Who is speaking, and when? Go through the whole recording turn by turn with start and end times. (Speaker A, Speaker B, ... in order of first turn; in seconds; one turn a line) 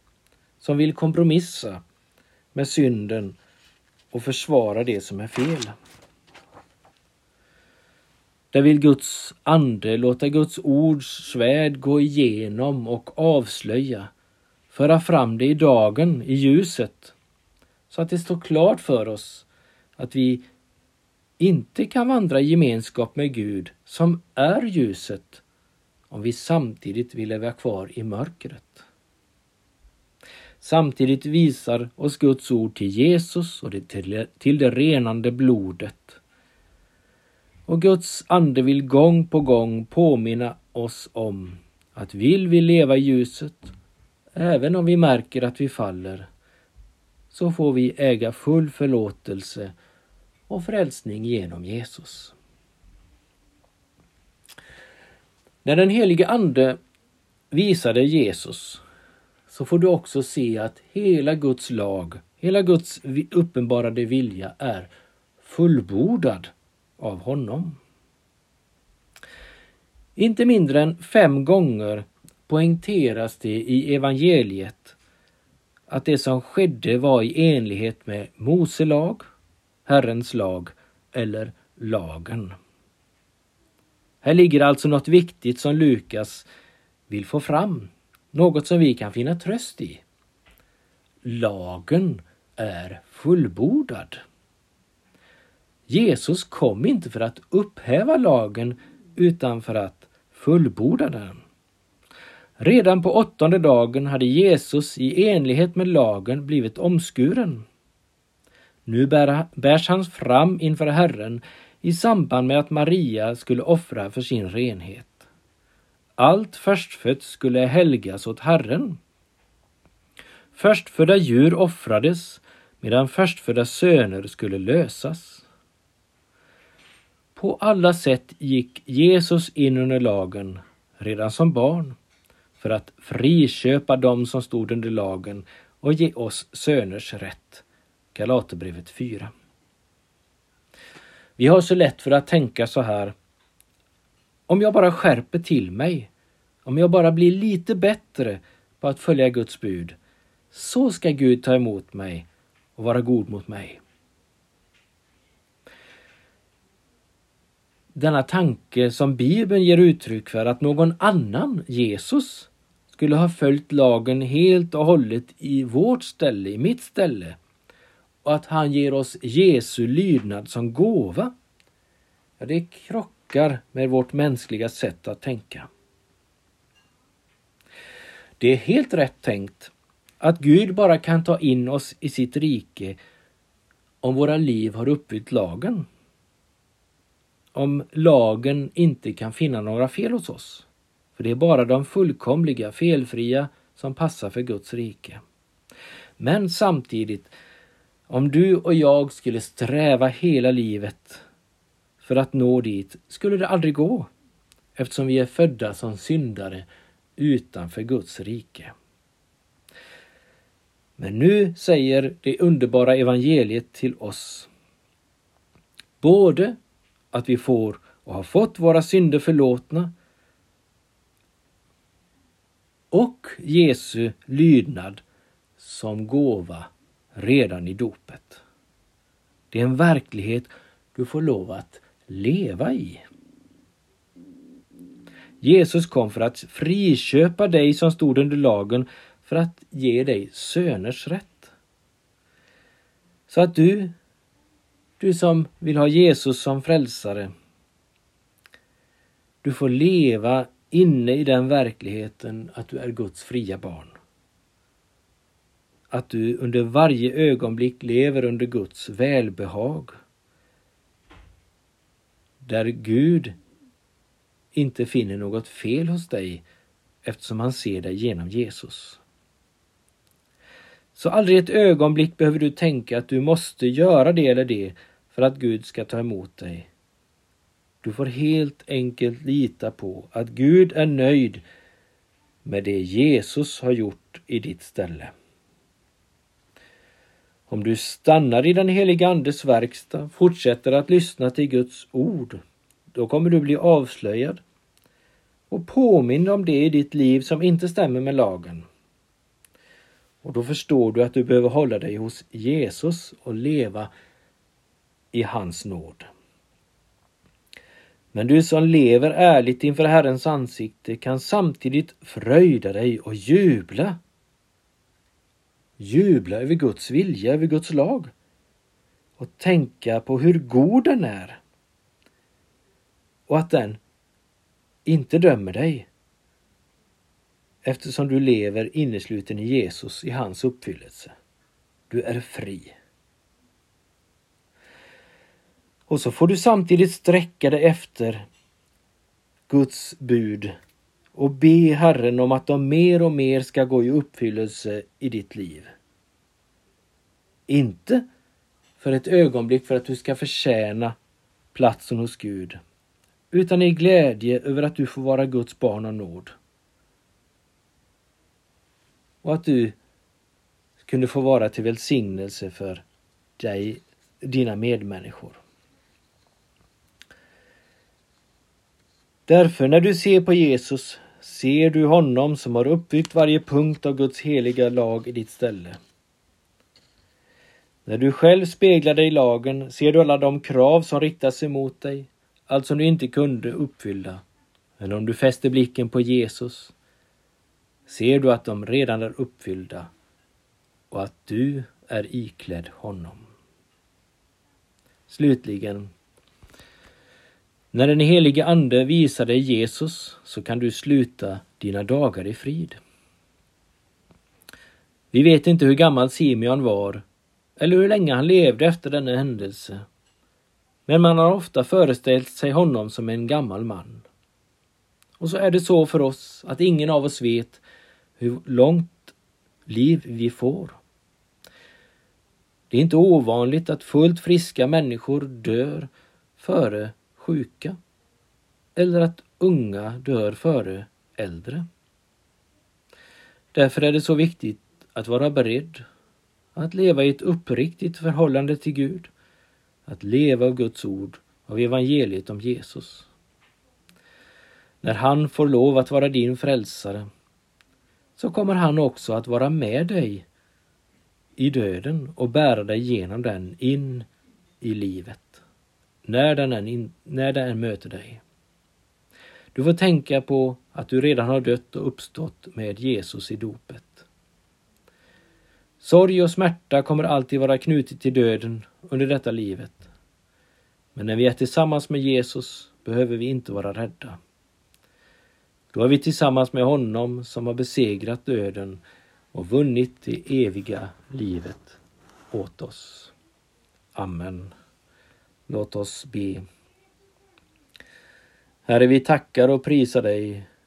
Speaker A: 0.6-1.8
Speaker A: 2.5-3.4
Speaker A: 4.1-5.7
Speaker A: 8.5-14.1
Speaker A: 14.7-17.1
Speaker A: 17.9-19.4
Speaker A: 20.0-20.4
Speaker A: 21.4-25.4
Speaker A: 26.1-28.9
Speaker A: 30.6-36.2
Speaker A: 37.7-43.7
Speaker A: 44.3-46.3
Speaker A: 47.3-49.7
Speaker A: 50.5-52.3
Speaker A: 55.6-56.8
Speaker A: 57.5-58.8
Speaker A: 59.5-67.8
Speaker A: 70.2-75.0
Speaker A: 75.9-79.2
Speaker A: 79.8-82.5
Speaker A: 84.2-86.5
Speaker A: 87.1-90.0
Speaker A: 91.2-94.2
Speaker A: 95.9-101.4
Speaker A: 102.6-107.7
Speaker A: 108.8-115.2
Speaker A: 116.2-119.0
Speaker A: 120.5-125.4
Speaker A: 127.3-132.0
Speaker A: 132.6-139.3
Speaker A: 141.4-143.1
Speaker A: 144.5-146.1
Speaker A: 146.7-149.9
Speaker A: 150.5-153.8
Speaker A: 157.9-167.4
Speaker A: 168.2-171.3
Speaker A: 172.4-175.7
Speaker A: 178.4-183.0
Speaker A: 184.0-185.9
Speaker A: 187.5-195.2
Speaker A: 196.2-197.3
Speaker A: 198.1-201.2
Speaker A: 202.0-204.1
Speaker A: 204.8-206.7
Speaker A: 207.2-208.7
Speaker A: 211.0-214.5
Speaker A: 216.0-216.6
Speaker A: 217.1-219.9
Speaker A: 222.9-225.0
Speaker A: 225.6-228.4
Speaker A: 229.5-233.0
Speaker A: 235.4-241.5
Speaker A: 243.3-243.9
Speaker A: 245.0-247.3
Speaker A: 249.4-253.9
Speaker A: 255.9-259.9
Speaker A: 262.4-263.3
Speaker A: 264.5-266.4
Speaker A: 267.0-269.0
Speaker A: 270.9-276.7
Speaker A: 277.8-281.4
Speaker A: 282.4-285.1
Speaker A: 287.5-292.4
Speaker A: 292.9-294.4
Speaker A: 295.5-298.6
Speaker A: 300.2-303.9
Speaker A: 305.1-306.1
Speaker A: 308.1-314.0
Speaker A: 315.8-318.1
Speaker A: 319.2-321.4
Speaker A: 323.3-323.8
Speaker A: 324.8-325.9
Speaker A: 327.6-331.1
Speaker A: 331.9-332.8
Speaker A: 335.9-338.2
Speaker A: 339.5-340.5
Speaker A: 341.1-345.7
Speaker A: 347.5-348.1
Speaker A: 348.8-350.9
Speaker A: 351.5-352.6
Speaker A: 353.3-356.3
Speaker A: 359.2-359.8
Speaker A: 360.8-362.8
Speaker A: 363.4-365.4
Speaker A: 369.3-375.8
Speaker A: 377.9-384.2
Speaker A: 384.8-386.7
Speaker A: 387.9-389.9
Speaker A: 390.9-393.2
Speaker A: 395.1-395.9
Speaker A: 397.7-402.8
Speaker A: 405.1-407.0
Speaker A: 407.6-409.8
Speaker A: 410.9-414.0
Speaker A: 415.2-417.6
Speaker A: 418.2-419.1
Speaker A: 419.6-420.8
Speaker A: 422.7-427.8
Speaker A: 428.8-431.6
Speaker A: 433.5-435.8
Speaker A: 436.5-439.1
Speaker A: 439.9-443.1
Speaker A: 444.8-447.1
Speaker A: 448.2-450.2
Speaker A: 451.4-454.1
Speaker A: 454.6-455.4
Speaker A: 456.1-458.2
Speaker A: 459.5-464.1
Speaker A: 465.8-469.9
Speaker A: 470.9-474.2
Speaker A: 475.7-478.8
Speaker A: 479.3-481.8
Speaker A: 482.3-483.1
Speaker A: 483.9-484.5
Speaker A: 485.5-486.4
Speaker A: 488.7-490.5